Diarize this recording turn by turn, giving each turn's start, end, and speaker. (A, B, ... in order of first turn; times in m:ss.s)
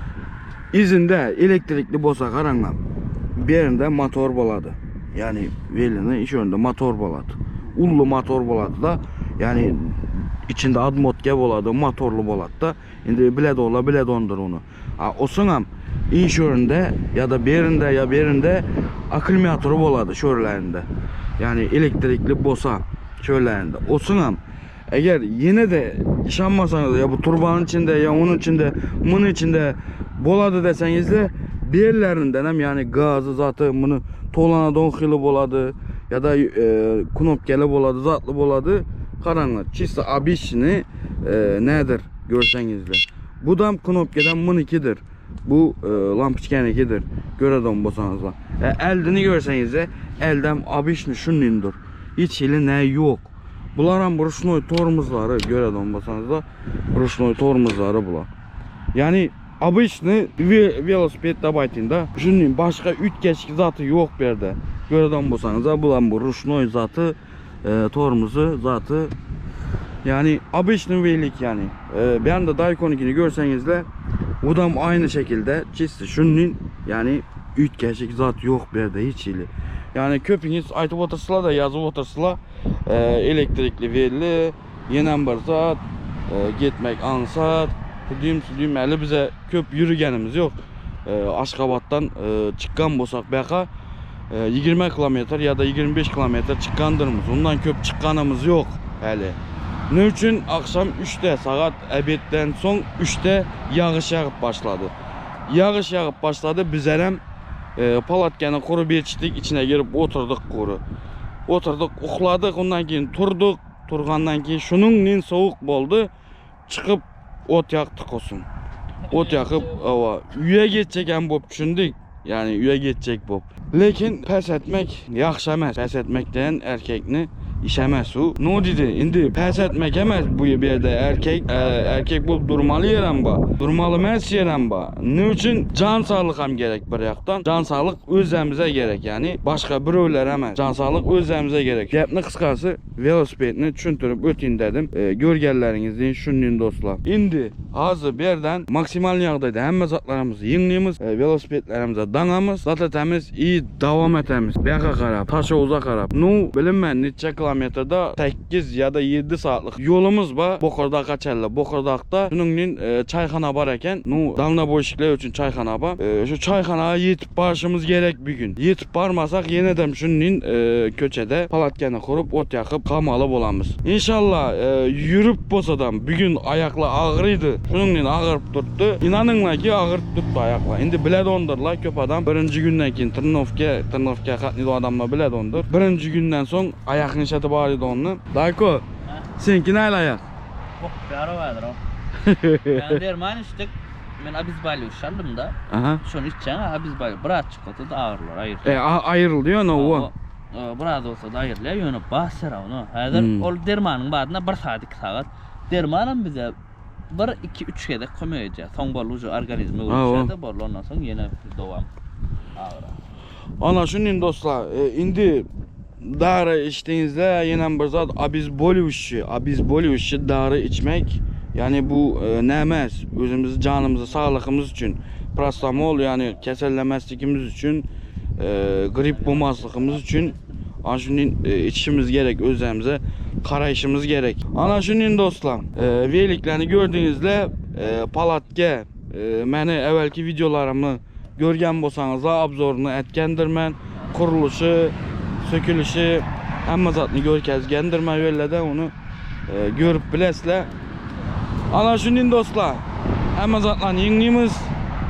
0:00.7-0:02.8 A
0:03.4-0:20.8 A
0:21.4-0:24.4 A
0:24.9-0:58.3 A
0:58.9-1:09.1 A
1:10.0-1:13.9 A
1:14.4-1:30.5 A
1:31.0-1:33.7 A
1:34.3-1:39.4 A
1:39.9-1:44.9 A
1:45.5-1:47.2 A
1:47.8-1:50.8 A
1:51.5-1:56.1 A
1:56.7-1:58.4 A
1:59.1-3:08.8 A
3:09.4-3:10.2 A
3:10.8-3:11.8 B
3:12.2-3:13.0 A
3:12.7-3:18.8 B
3:15.7-3:16.0 A
3:18.6-3:20.1 A
3:19.7-3:26.5 B
3:23.1-3:23.5 A
3:27.1-3:31.9 B
3:29.9-3:30.3 A
3:32.6-3:33.0 B
3:33.6-3:35.5 A
3:36.0-3:47.9 A
3:48.4-4:08.9 A
4:09.5-4:10.7 A
4:11.7-4:12.8 A
4:13.3-4:14.7 A